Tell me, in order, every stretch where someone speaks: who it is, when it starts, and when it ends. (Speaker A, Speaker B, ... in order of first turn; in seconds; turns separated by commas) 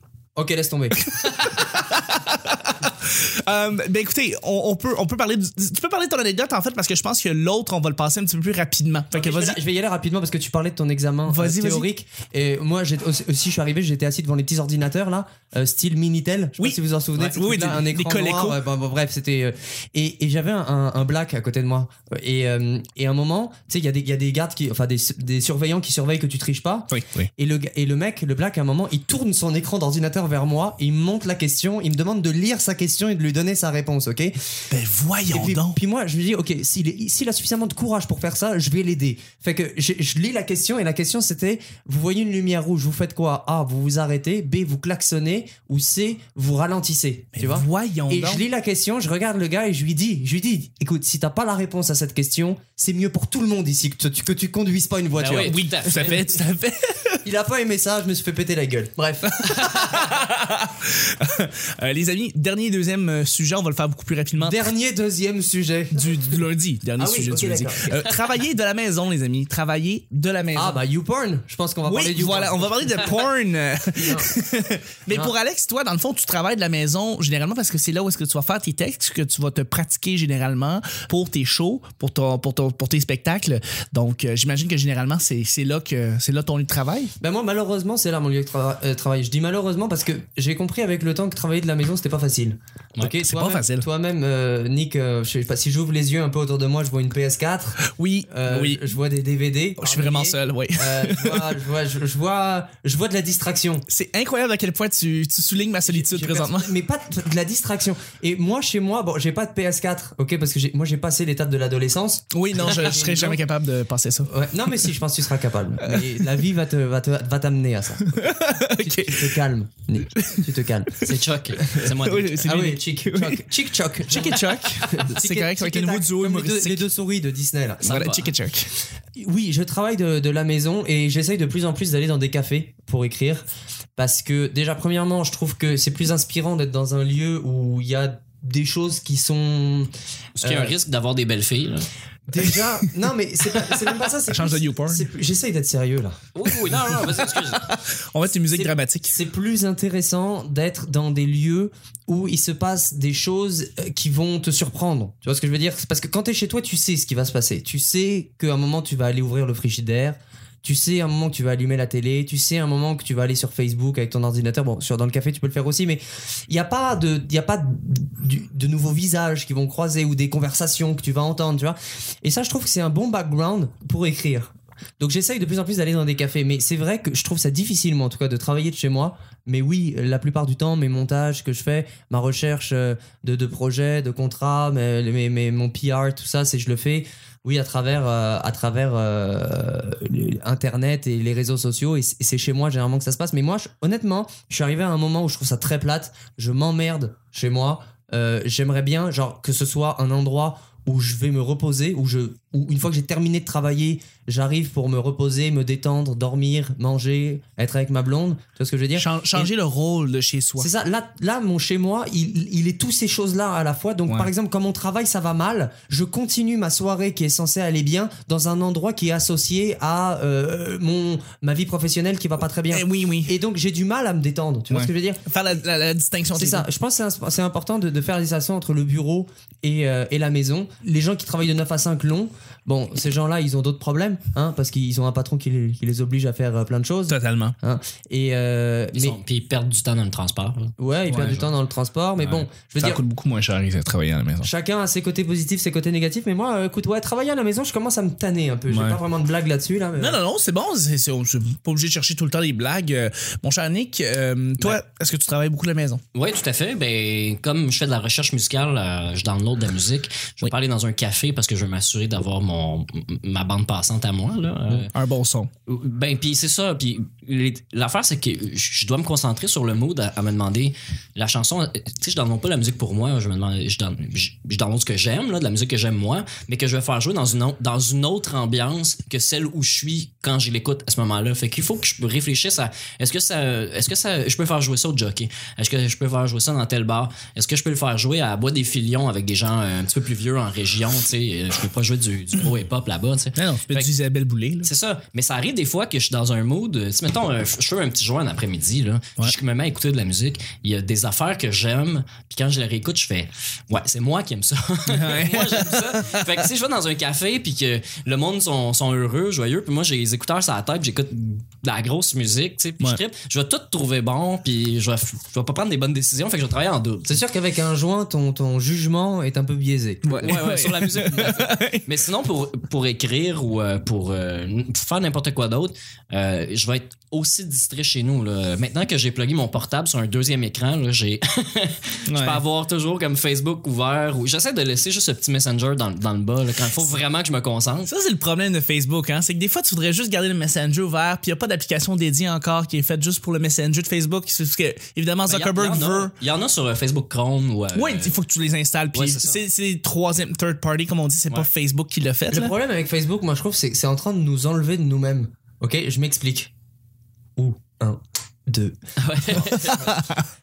Speaker A: 0.3-1.7, Speaker B: 1.6-9.6, Speaker A: 9.1-34.3, Speaker B: 11.3-11.9, Speaker B: 16.6-18.6, Speaker B: 26.9-27.3, Speaker B: 34.7-35.8, Speaker A: 35.3-55.5, Speaker B: 47.4-48.4, Speaker C: 55.2-56.3, Speaker B: 55.4-57.2, Speaker A: 57.2-60.0, Speaker B: 59.4-64.6, Speaker A: 64.4-66.3, Speaker B: 65.9-70.8, Speaker A: 67.0-68.2, Speaker A: 70.5-73.2, Speaker B: 71.8-87.1, Speaker A: 74.0-74.3, Speaker A: 87.2-103.9, Speaker B: 93.2-93.8, Speaker B: 97.8-98.9, Speaker B: 99.8-101.6, Speaker B: 103.9-106.7, Speaker A: 105.8-113.4, Speaker B: 112.3-114.3, Speaker A: 114.3-121.9, Speaker B: 115.8-116.3, Speaker B: 118.0-119.4, Speaker B: 120.1-120.5, Speaker C: 121.0-122.5, Speaker B: 121.7-123.4, Speaker A: 122.4-127.9, Speaker B: 124.1-126.8, Speaker B: 127.8-128.7, Speaker C: 127.8-128.3, Speaker A: 129.2-133.4, Speaker A: 134.0-140.7, Speaker C: 140.4-141.9, Speaker A: 142.3-146.2, Speaker B: 143.7-145.1, Speaker C: 146.3-147.7, Speaker B: 146.5-149.1, Speaker A: 148.5-209.5, Speaker B: 208.9-210.7, Speaker A: 210.6-225.2, Speaker B: 222.7-223.3, Speaker B: 224.7-226.7, Speaker A: 226.3-239.2, Speaker B: 237.1-237.6, Speaker C: 238.9-240.7, Speaker A: 240.8-243.0, Speaker B: 241.1-241.5, Speaker B: 242.2-244.5, Speaker A: 244.4-250.2, Speaker B: 248.7-249.0, Speaker B: 249.9-256.0, Speaker C: 256.1-264.9, Speaker B: 264.9-265.5, Speaker C: 265.7-293.9, Speaker B: 293.4-294.7, Speaker C: 294.6-317.2, Speaker B: 304.9-306.0, Speaker A: 317.1-320.4, Speaker B: 320.0-321.9, Speaker C: 320.2-337.9, Speaker B: 332.1-332.4, Speaker B: 337.9-346.1, Speaker C: 345.3-348.1, Speaker B: 347.7-352.5, Speaker C: 348.9-349.4, Speaker A: 352.3-356.5, Speaker A: 357.4-358.8, Speaker C: 359.0-360.0, Speaker B: 359.7-360.2